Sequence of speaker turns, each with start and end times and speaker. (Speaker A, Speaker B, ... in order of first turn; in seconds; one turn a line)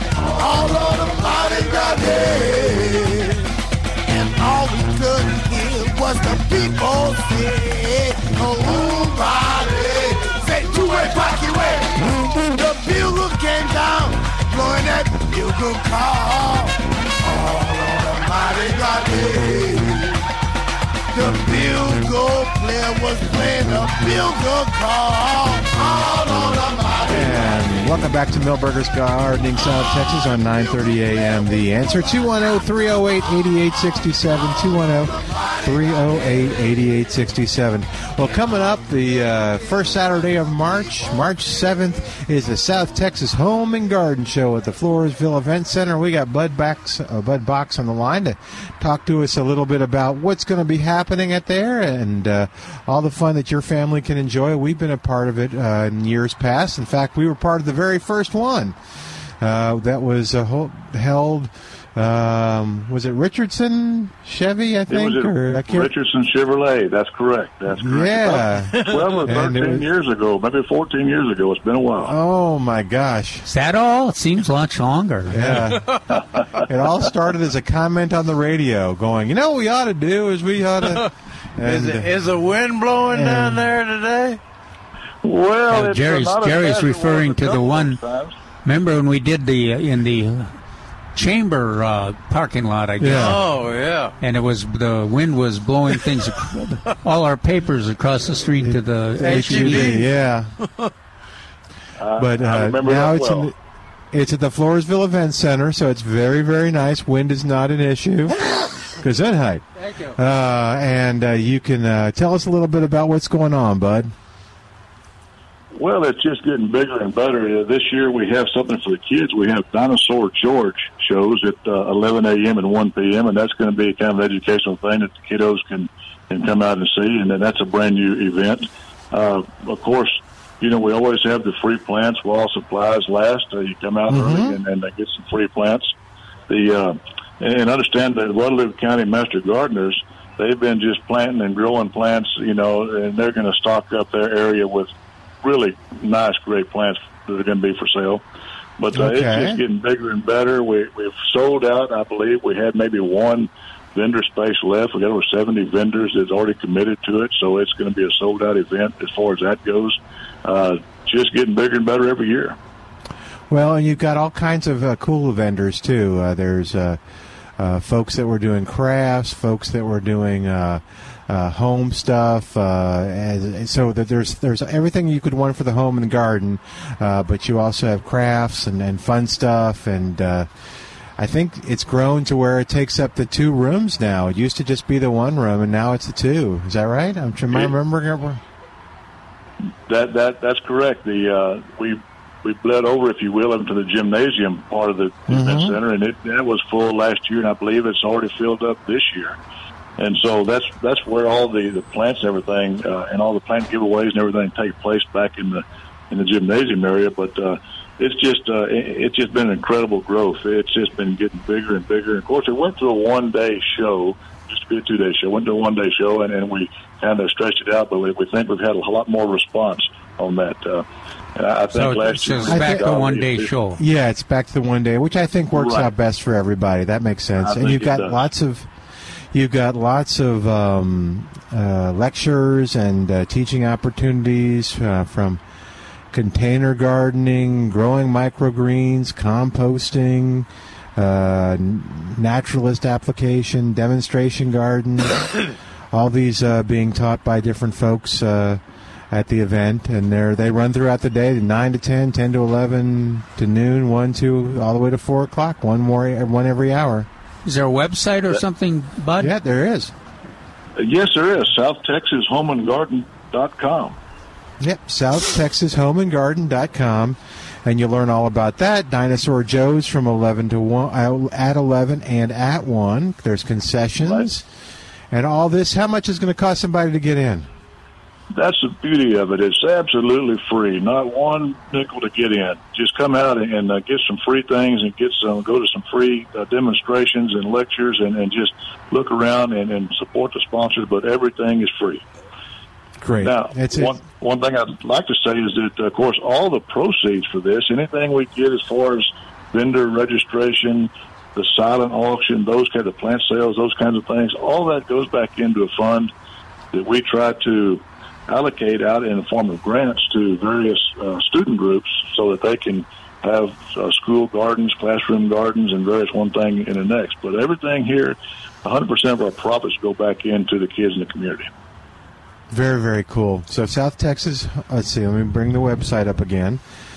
Speaker A: 0.3-3.5
Speaker A: 4.1-20.1
Speaker A: 21.1-27.6
Speaker B: 27.1-58.8
Speaker B: 59.4-65.9
Speaker C: 64.9-72.1
Speaker B: 67.7-69.8
Speaker D: 68.5-69.2
Speaker B: 72.0-73.5
Speaker E: 73.5-75.7
Speaker B: 75.3-75.9
Speaker D: 75.7-76.2
Speaker B: 76.6-82.2
Speaker D: 81.6-84.4
Speaker B: 83.1-83.7
Speaker C: 85.2-88.3
Speaker E: 85.7-88.0
Speaker E: 88.6-90.6
Speaker E: 91.1-93.5
Speaker B: 93.0-93.4
Speaker D: 93.1-94.1
Speaker E: 94.2-100.0
Speaker B: 98.6-100.5
Speaker D: 99.2-100.9
Speaker C: 102.0-103.5
Speaker B: 102.2-103.5
Speaker B: 104.1-114.1
Speaker C: 115.7-135.9
Speaker B: 134.1-134.6
Speaker C: 136.5-144.9
Speaker C: 145.4-148.2
Speaker C: 148.8-162.6
Speaker B: 148.9-149.6
Speaker B: 163.5-167.0
Speaker B: 167.6-180.5
Speaker B: 181.2-188.4
Speaker C: 189.9-199.4
Speaker B: 195.3-195.8
Speaker C: 200.0-223.5
Speaker E: 221.7-223.8
Speaker B: 222.5-222.9
Speaker B: 223.8-228.7
Speaker C: 225.5-225.9
Speaker C: 227.4-228.2
Speaker B: 229.3-235.4
Speaker B: 236.1-245.3
Speaker B: 245.9-257.1
Speaker E: 257.4-259.3
Speaker B: 259.2-259.9
Speaker C: 260.8-264.0
Speaker B: 264.6-274.4
Speaker C: 274.0-274.3
Speaker B: 275.1-277.5
Speaker C: 278.3-292.0
Speaker B: 293.0-294.0
Speaker C: 293.2-306.1
Speaker C: 306.7-321.5
Speaker B: 322.5-326.6